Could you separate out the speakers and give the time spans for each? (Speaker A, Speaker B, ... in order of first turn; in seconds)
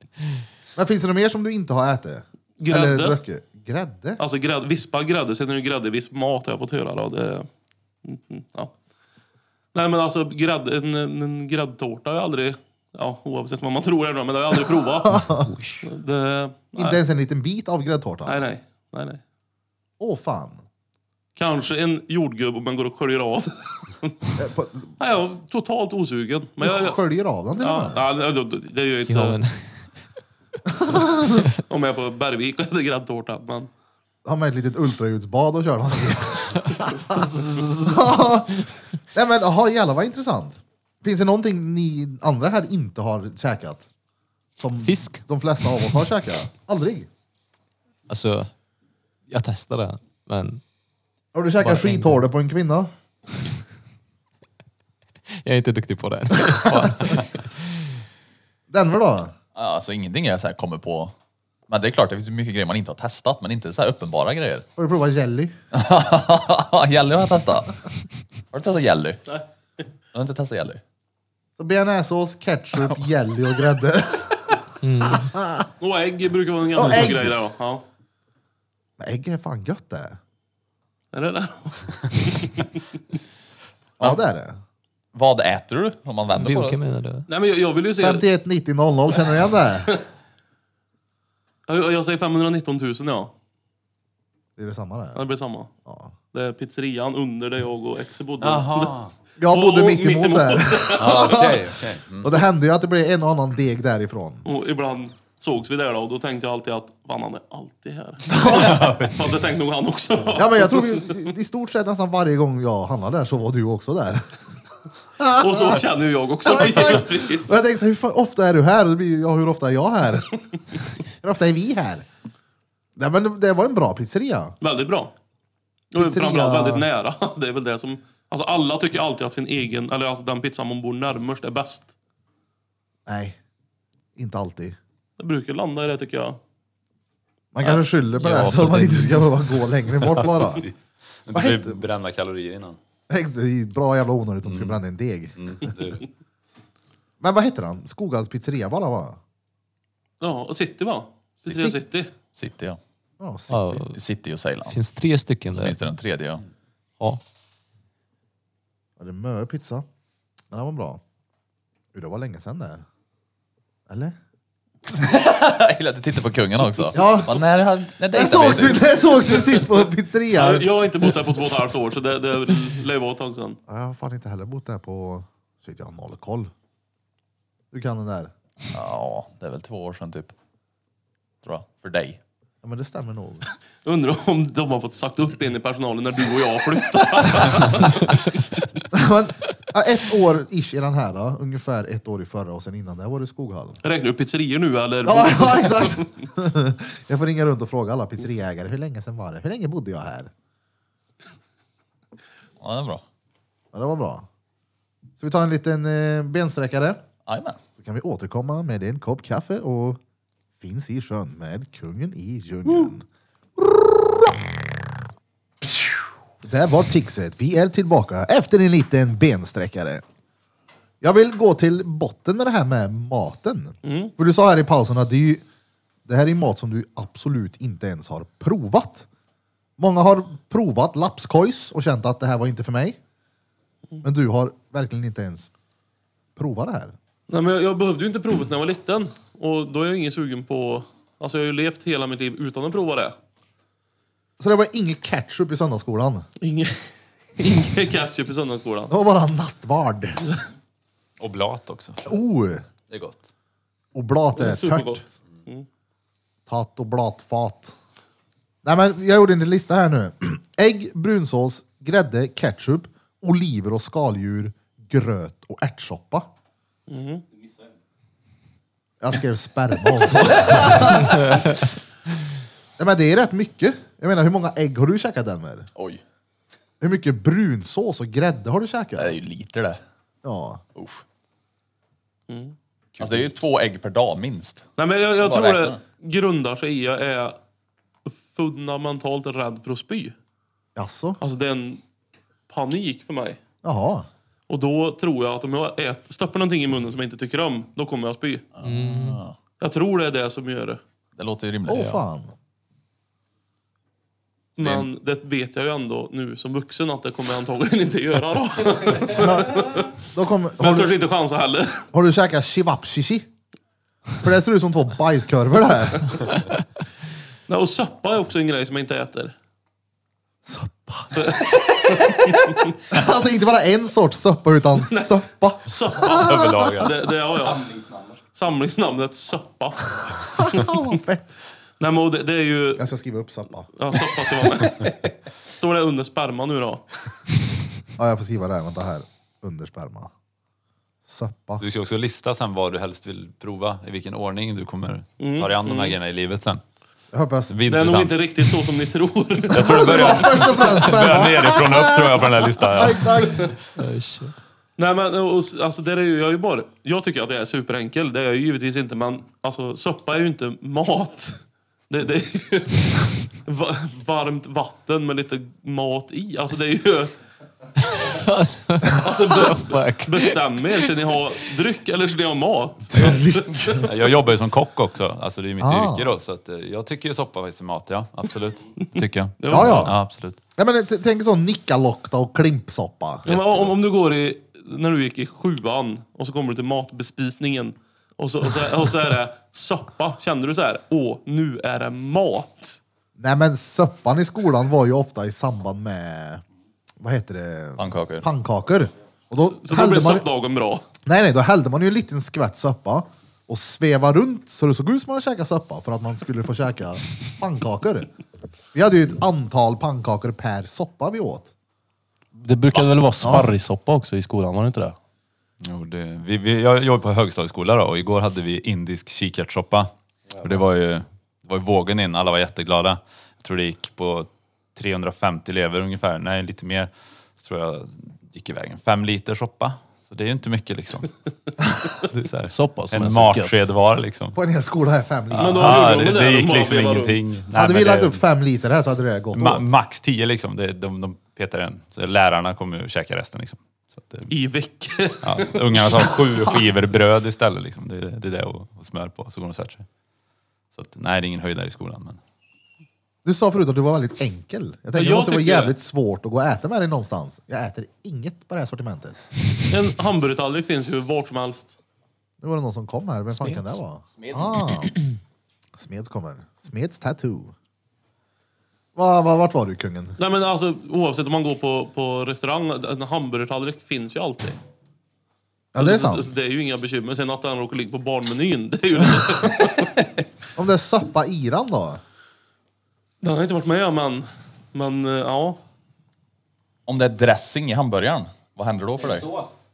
Speaker A: 0.8-4.2, 15.1-15.4, 16.8-18.5, 20.0-20.6, 24.4-24.9, 26.6-28.0, 30.8-31.4, 34.2-43.9, 44.6-47.1, 51.3-52.9, 58.7-59.3, 64.8-65.5, 71.6-74.4, 75.0-75.7, 76.7-77.3, 79.0-80.2, 84.0-84.6, 88.0-89.9, 94.6-95.2, 95.8-96.1, 99.4-101.6, 102.2-104.5, 108.3-109.0, 110.3-114.3, 115.2-115.8, 116.4-120.3, 121.2-122.0, 123.0-124.5, 126.0-126.8, 133.1-133.4, 134.2-134.8, 137.5-140.7, 141.3-142.0, 143.1-145.4, 147.2-149.2, 151.5-151.7, 153.2-153.9, 159.0-159.8, 160.5-161.0, 161.9-162.8, 163.9-164.2, 166.9-167.5, 168.1-170.9, 173.7-176.5, 177.7-178.3, 182.6-183.4, 188.9-193.8, 195.0-200.3, 203.7-204.2, 205.2-207.0, 207.8-210.0, 210.6-213.0, 213.6-214.7, 216.4-220.0, 221.0-225.4, 226.1-229.1, 229.8-233.0, 234.0-235.5, 236.3-237.0, 244.4-246.2, 248.9-250.2, 252.0-252.6, 253.9-255.0, 256.5-257.7, 258.6-266.3, 269.0-271.6, 272.8-275.7, 276.8-279.2, 280.2-280.6, 290.8-291.2, 293.6-294.1, 301.7-302.3, 309.1-310.9, 311.9-313.3, 314.2-316.2, 320.4-326.5, 330.4-331.3, 332.8-333.7, 338.0-340.1, 341.0-341.6, 347.1-347.6, 349.6-353.5, 372.9-373.8, 375.6-376.1, 379.5-379.9, 380.6-383.2, 393.2-396.4, 397.0-400.2, 401.1-408.1, 408.7-411.5, 413.2-413.5, 434.3-435.9, 437.5-439.6, 453.2-459.2, 462.4-465.0, 465.8-467.5, 468.9-470.2, 475.7-476.3, 480.6-482.0
Speaker B: 2.6-3.2, 4.2-7.5, 8.0-8.7, 9.7-15.2, 15.8-17.0, 18.2-19.2, 21.4-24.3, 25.0-27.0, 27.6-29.4, 31.6-33.7, 36.9-37.6, 75.8-77.8, 81.1-82.7, 87.3-88.2, 91.7-93.3, 95.1-95.7, 96.3-98.9, 99.5-101.5, 104.4-111.2, 115.3-117.5, 124.6-125.1, 125.9-131.9, 135.2-136.4, 150.2-152.1, 170.3-173.6, 183.8-188.6, 193.8-196.1, 223.8-224.1, 237.3-243.2, 246.4-248.9, 254.3-255.7, 266.9-267.2, 282.3-282.6, 284.8-287.4, 288.1-290.1, 291.2-291.8, 292.5-293.4, 294.5-298.4, 299.6-300.8, 304.6-310.0, 310.6-311.9, 317.5-319.3, 321.1-322.8, 324.8-327.7, 328.3-330.9, 331.8-332.8, 333.7-336.8, 345.2-346.0, 347.7-350.9, 354.8-367.1, 369.0-373.9, 379.4-379.9, 383.2-392.8, 399.4-400.8, 435.4-437.4, 444.3-446.2, 454.9-455.7, 459.7-461.7, 470.2-474.6, 475.8-480.2, 483.2-485.6
Speaker C: 15.2-15.9, 29.1-29.9, 44.8-45.2, 48.1-48.5, 49.3-50.6, 51.6-52.2, 55.3-57.5, 74.8-75.3, 86.3-87.3, 138.2-139.2, 153.5-154.0, 154.7-155.8, 298.6-299.2, 301.8-302.0, 353.8-354.3, 367.9-370.9, 463.3-463.8
Speaker D: 59.5-61.1, 61.7-64.7, 65.7-67.8, 68.5-69.2, 70.1-70.8, 72.8-73.0, 85.1-86.8, 152.3-152.8, 153.9-154.8, 155.5-156.4, 164.9-169.1, 178.7-180.3, 181.4-182.2, 202.6-203.0, 207.2-207.6, 275.8-276.0, 279.0-279.8, 280.8-281.0, 283.0-284.6, 285.2-285.8, 298.6-299.4, 301.1-301.9, 397.8-398.2, 486.9-489.3
Speaker E: 98.4-99.1, 101.0-102.3, 108.4-109.2, 137.6-138.5, 140.0-142.8, 144.4-144.8, 145.4-146.1, 251.2-252.1, 252.9-253.2, 326.0-327.0, 341.6-346.6, 347.5-348.4, 349.5-353.1, 373.8-380.4, 383.3-383.7, 415.6-431.1, 432.0-434.4, 435.3-438.2, 439.3-444.3, 445.2-449.9, 450.7-452.2
Speaker F: 327.5-328.2, 412.4-414.9, 432.5-433.7, 489.0-489.5